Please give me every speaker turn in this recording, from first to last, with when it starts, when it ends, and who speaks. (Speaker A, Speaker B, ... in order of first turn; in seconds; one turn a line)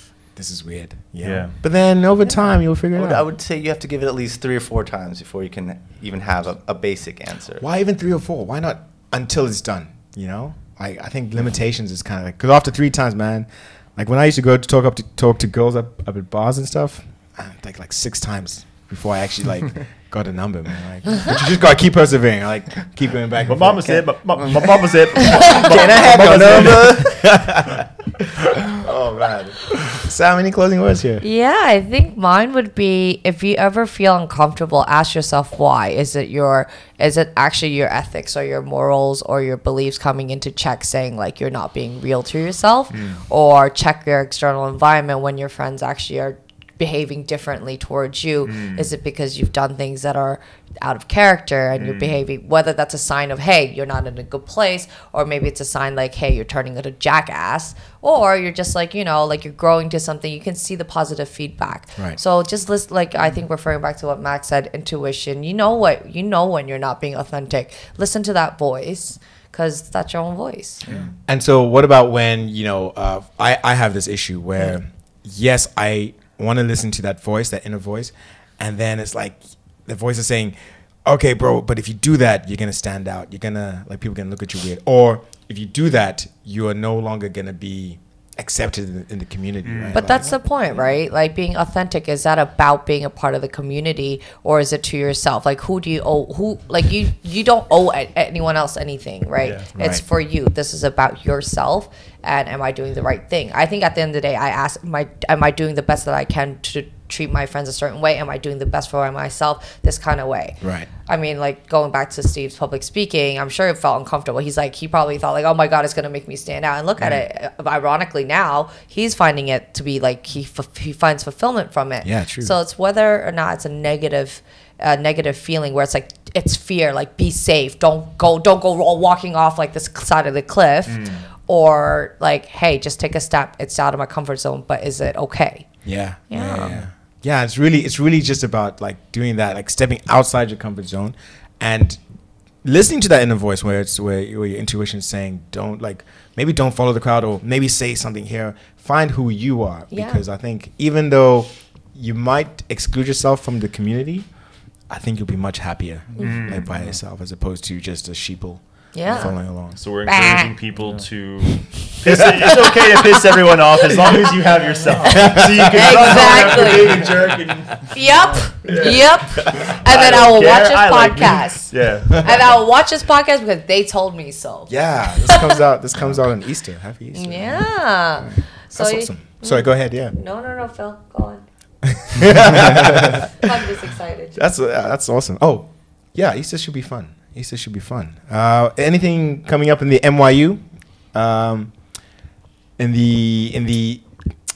Speaker A: 0.3-3.2
Speaker B: 1.2-1.6
Speaker C: 2.9-7.6
Speaker A: 7.6-24.0
Speaker B: 23.4-27.0
Speaker C: 24.4-27.2
Speaker A: 25.6-28.3
Speaker C: 28.7-29.7
Speaker A: 29.8-31.2
Speaker D: 31.2-70.8
Speaker B: 42.9-43.2
Speaker B: 48.4-48.9
Speaker B: 51.7-52.2
Speaker A: 71.2-90.3
Speaker B: 89.6-90.2
Speaker D: 89.9-135.7
Speaker B: 99.4-99.7
Speaker A: 99.7-100.0
Speaker A: 110.6-110.9
Speaker A: 122.0-122.5
Speaker B: 130.9-131.2
Speaker A: 135.8-142.0
Speaker D: 136.3-136.7
Speaker A: 142.6-154.2
Speaker D: 149.9-150.2
Speaker A: 154.9-159.8
Speaker B: 156.2-156.9
Speaker D: 158.9-159.3
Speaker B: 159.1-168.0
Speaker D: 160.1-160.5
Speaker A: 162.1-162.3
Speaker D: 164.1-164.3
Speaker D: 165.1-167.1
Speaker A: 165.1-165.9
Speaker D: 167.9-175.6
Speaker B: 168.6-172.6
Speaker A: 174.7-180.1
Speaker D: 177.1-181.4
Speaker A: 181.9-183.5
Speaker D: 183.4-184.4
Speaker A: 184.3-191.7
Speaker A: 192.8-194.0